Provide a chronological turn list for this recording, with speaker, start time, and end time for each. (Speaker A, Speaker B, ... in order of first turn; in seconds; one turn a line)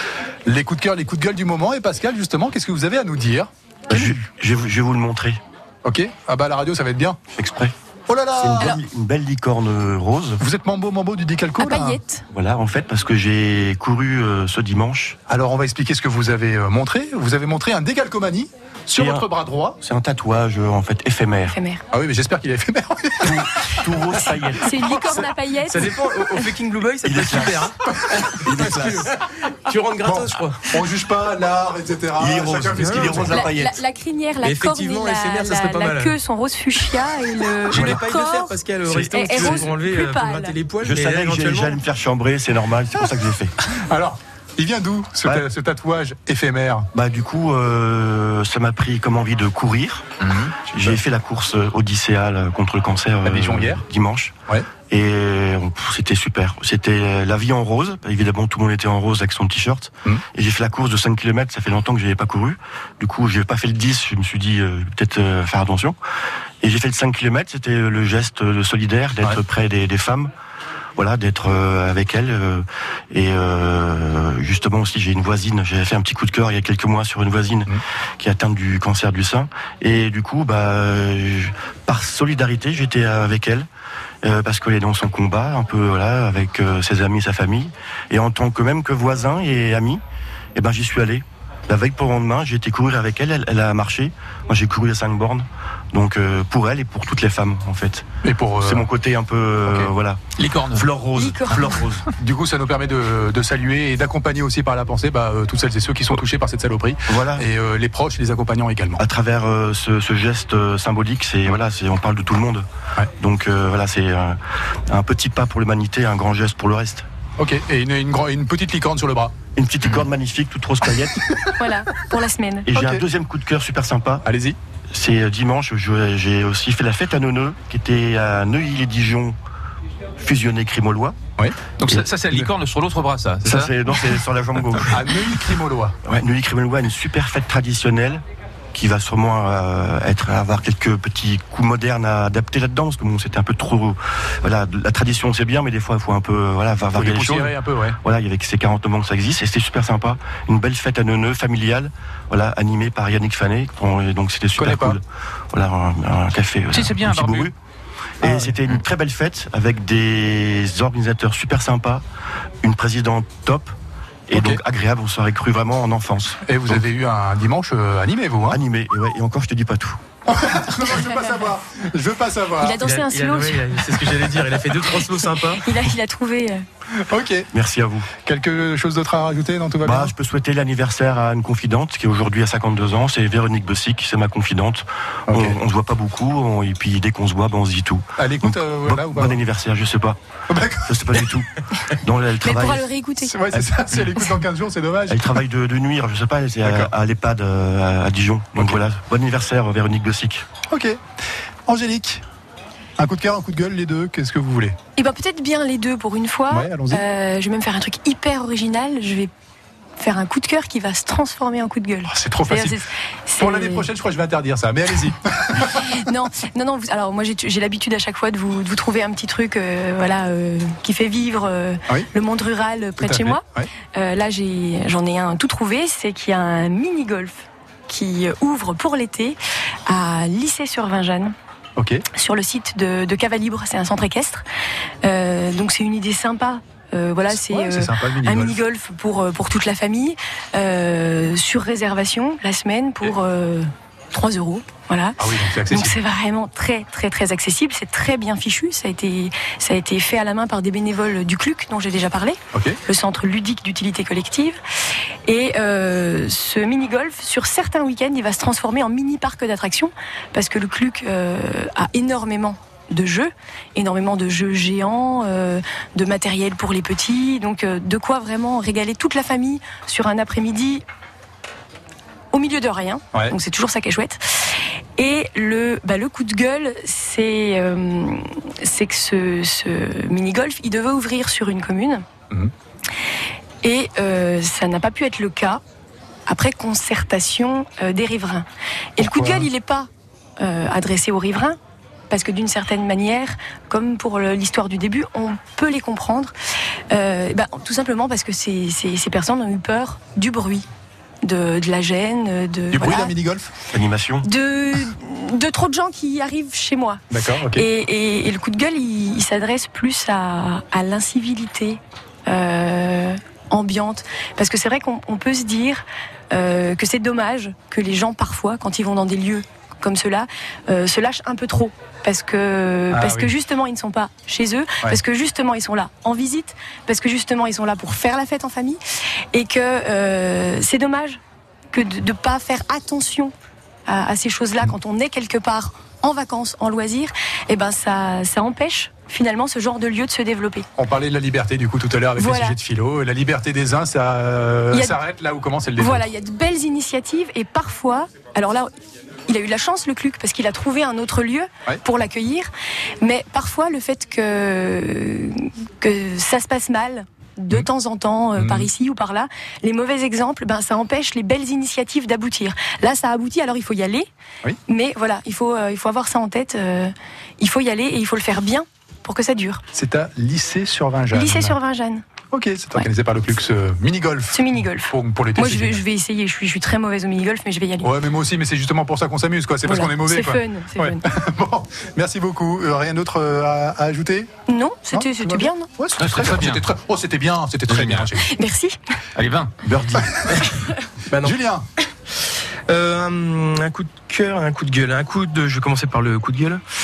Speaker A: 0.5-4.0
Speaker B: 3.9-5.4
Speaker A: 5.8-7.2
Speaker B: 7.3-7.7
Speaker A: 8.1-8.8
Speaker B: 8.4-10.4
Speaker A: 10.4-12.0
Speaker C: 11.6-12.2
Speaker B: 12.3-15.2
Speaker A: 15.3-19.8
Speaker B: 18.9-19.3
Speaker B: 19.8-21.5
Speaker C: 21.5-21.8
Speaker A: 21.9-24.0
Speaker B: 23.2-25.2
Speaker C: 24.6-26.0
Speaker D: 25.0-27.8
Speaker B: 27.0-27.7
Speaker A: 28.0-29.1
Speaker D: 28.3-30.6
Speaker B: 28.4-29.1
Speaker A: 30.0-33.5
Speaker B: 32.2-33.8
Speaker D: 32.7-33.3
Speaker C: 33.3-40.6
Speaker D: 34.4-36.2
Speaker D: 37.7-41.8
Speaker B: 38.9-39.5
Speaker B: 40.8-43.5
Speaker A: 43.6-46.9
Speaker B: 46.9-50.1
Speaker A: 50.2-51.0
Speaker B: 50.7-54.3
Speaker A: 53.2-53.8
Speaker B: 54.9-66.0
Speaker B: 66.6-70.3
Speaker B: 71.0-83.7
Speaker B: 84.2-90.0
Speaker B: 90.5-98.0
Speaker A: 98.2-98.9
Speaker B: 98.6-102.1
Speaker E: 100.4-100.9
Speaker C: 101.1-101.7
Speaker A: 102.2-109.0
Speaker B: 107.1-107.4
Speaker B: 109.0-112.6
Speaker B: 113.2-117.1
Speaker A: 117.4-119.3
Speaker B: 119.6-121.3
Speaker C: 121.6-122.7
Speaker B: 122.7-124.2
Speaker A: 122.7-123.0
Speaker A: 124.2-124.6
Speaker B: 124.9-129.3
Speaker B: 130.2-131.2
Speaker A: 131.4-132.4
Speaker E: 131.8-133.7
Speaker B: 133.4-135.0
Speaker A: 133.4-133.7
Speaker A: 134.9-136.0
Speaker B: 136.1-138.2
Speaker B: 138.7-157.5
Speaker A: 146.9-148.0
Speaker A: 154.6-155.0
Speaker E: 156.7-157.5
Speaker B: 158.2-162.0
Speaker A: 158.2-158.5
Speaker B: 162.6-163.7
Speaker B: 164.3-166.4
Speaker A: 164.3-164.6
Speaker A: 166.4-168.6
Speaker B: 168.5-170.0
Speaker A: 170.3-172.8
Speaker C: 172.6-174.1
Speaker D: 172.8-175.7
Speaker C: 175.5-176.6
Speaker A: 176.9-177.5
Speaker B: 177.5-178.1
Speaker A: 178.2-180.1
Speaker B: 179.8-190.2
Speaker A: 185.3-185.6
Speaker A: 188.2-189.4
Speaker A: 190.5-191.2
Speaker B: 190.9-192.9
Speaker C: 192.4-193.3
Speaker A: 193.2-195.2
Speaker B: 195.1-200.4
Speaker A: 196.7-196.9
Speaker A: 200.7-201.0
Speaker A: 201.7-202.2
Speaker A: 203.0-204.8
Speaker C: 204.9-209.3
Speaker A: 206.5-207.0
Speaker C: 210.0-213.9
Speaker A: 212.1-212.8
Speaker A: 213.4-216.0
Speaker C: 215.7-231.3
Speaker A: 223.0-223.7
Speaker A: 231.8-232.0
Speaker C: 232.1-234.4
Speaker C: 235.0-254.6
Speaker A: 237.3-238.6
Speaker A: 245.2-246.0
Speaker A: 252.5-252.8
Speaker C: 255.3-270.8
Speaker C: 272.3-282.0
Speaker C: 283.6-285.6
Speaker C: 286.3-288.4
Speaker C: 289.0-289.9
Speaker A: 289.0-289.5
Speaker C: 290.4-291.6
Speaker C: 292.1-296.3
Speaker C: 296.9-300.6
Speaker C: 301.2-303.1
Speaker A: 302.7-303.5
Speaker B: 303.7-304.3
Speaker C: 304.2-328.8
Speaker A: 307.1-307.7
Speaker A: 322.9-323.3
Speaker C: 329.3-331.2
Speaker C: 331.7-333.3
Speaker C: 333.9-340.7
Speaker A: 340.8-346.1
Speaker C: 342.2-342.6
Speaker C: 345.8-348.7
Speaker C: 349.3-352.5
Speaker C: 353.0-364.1
Speaker A: 358.4-358.7
Speaker C: 364.7-369.6
Speaker A: 369.7-371.6
Speaker C: 371.1-372.0
Speaker A: 372.3-375.8
Speaker C: 374.3-377.9
Speaker A: 377.8-384.3
Speaker C: 379.6-381.0
Speaker C: 384.5-385.7
Speaker A: 384.9-388.3
Speaker E: 386.0-386.6
Speaker E: 387.7-388.1
Speaker C: 388.2-388.8
Speaker E: 389.2-389.6
Speaker B: 389.7-390.1
Speaker A: 389.9-390.4
Speaker D: 390.3-390.5
Speaker D: 391.1-391.4
Speaker A: 391.2-391.7
Speaker D: 392.7-396.6